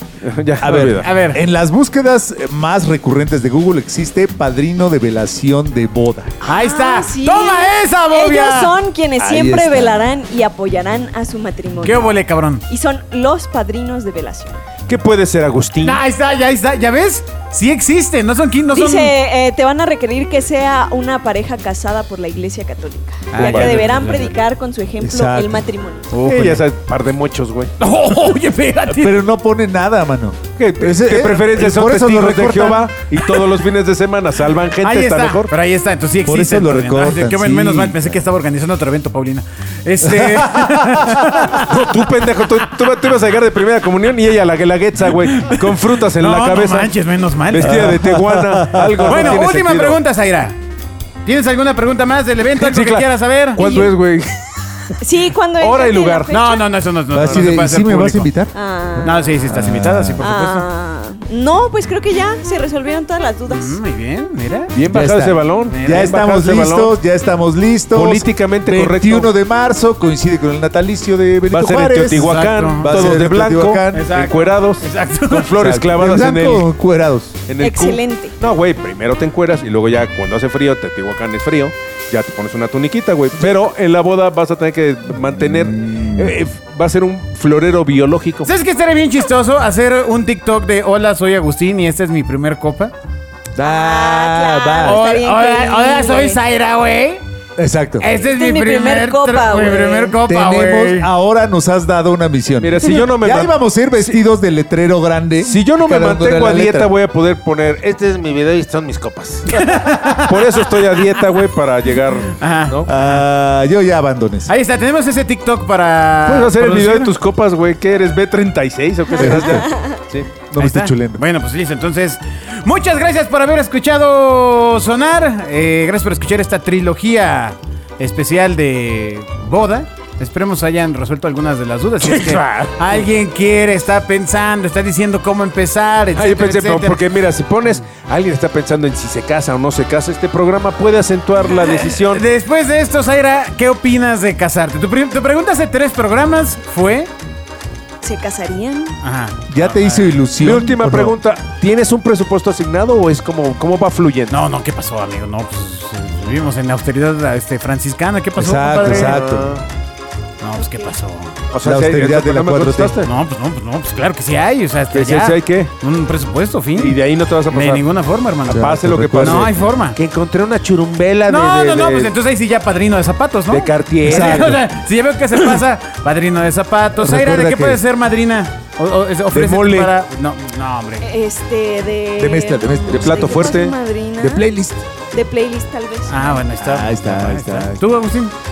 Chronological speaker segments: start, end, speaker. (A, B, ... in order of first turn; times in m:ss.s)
0:00.2-0:01.1 A
0:00.6-0:06.4 B
0:01.0-0:01.4 C
0:06.4-0:08.7 C
0:06.5-0:14.6 D
0:09.2-0:10.1 B
0:11.8-0:12.6 C
0:14.9-0:16.0 A
0:15.8-0:19.2 C
0:18.7-0:26.1 D
0:23.3-0:24.4 C
0:23.3-0:24.2 A
0:25.0-0:25.7 B
0:26.1-0:26.6 C
0:26.2-0:27.7 A
0:27.8-0:29.2 C
0:28.9-0:32.9 B
0:30.6-0:35.5 A
0:34.8-0:41.7 C
0:36.2-0:38.1 B
0:40.0-0:41.6 B
0:41.6-0:46.9 A
0:45.1-0:48.0 C
0:47.5-0:50.0 A
0:47.6-0:49.4 B
0:49.0-0:50.6 C
0:51.2-0:53.7 C
0:52.5-0:54.4 A
0:53.6-0:53.9 D
0:55.0-0:56.7 D
0:55.6-0:56.3 A
0:56.3-0:58.3 C
0:57.1-1:00.3 B
0:58.5-0:59.2 D
0:59.0-1:00.7 C
1:00.2-1:03.8 D
1:03.5-1:04.7 C
1:04.7-1:07.0 A
1:04.9-1:14.1 B
1:05.7-1:06.2 C
1:07.9-1:09.3 A
1:11.5-1:16.7 A
1:12.2-1:13.1 C
1:13.9-1:15.6 C
1:15.5-1:17.4 B
1:17.5-1:28.5 A
1:17.6-1:18.4 D
1:25.2-1:26.4 B
1:28.4-1:32.9 C
1:33.6-1:35.0 B
1:33.6-1:36.4 D
1:34.8-1:37.2 C
1:37.6-1:38.1 B
1:38.0-1:41.1 C
1:38.3-1:40.2 D
1:40.2-1:46.9 B
1:42.6-1:44.2 A
1:45.4-1:52.9 A
1:49.5-1:50.7 C
1:52.4-1:53.2 C
1:52.9-1:54.5 B
1:54.5-1:57.1 C
1:56.3-2:00.3 A
1:59.2-1:59.7 B
1:59.3-1:59.8 D
2:00.5-2:01.2 B
2:00.6-2:17.0 C
2:12.0-2:13.1 A
2:16.2-2:22.2 A
2:21.5-2:27.1 C
2:28.0-2:29.0 D
2:29.0-2:30.2 C
2:29.5-2:31.2 B
2:30.4-2:34.5 A
2:34.3-2:39.2 C
2:38.4-2:39.6 B
2:38.8-2:39.6 A
2:40.4-2:41.4 C
2:41.5-2:43.1 A
2:41.6-2:43.0 B
2:43.0-2:48.6 C
2:44.9-2:45.7 A
2:46.8-2:52.2 A
2:48.5-2:49.6 B
2:49.2-2:50.0 C
2:51.3-3:01.1 C
2:53.5-2:54.6 A
2:54.0-2:54.6 B
2:57.0-2:57.8 B
2:59.3-2:59.9 A
3:01.0-3:04.4 D
3:02.2-3:03.4 B
3:02.9-3:03.8 A
3:04.2-3:04.8 B
3:05.1-3:06.3 D
3:06.1-3:08.3 C
3:06.6-3:07.9 B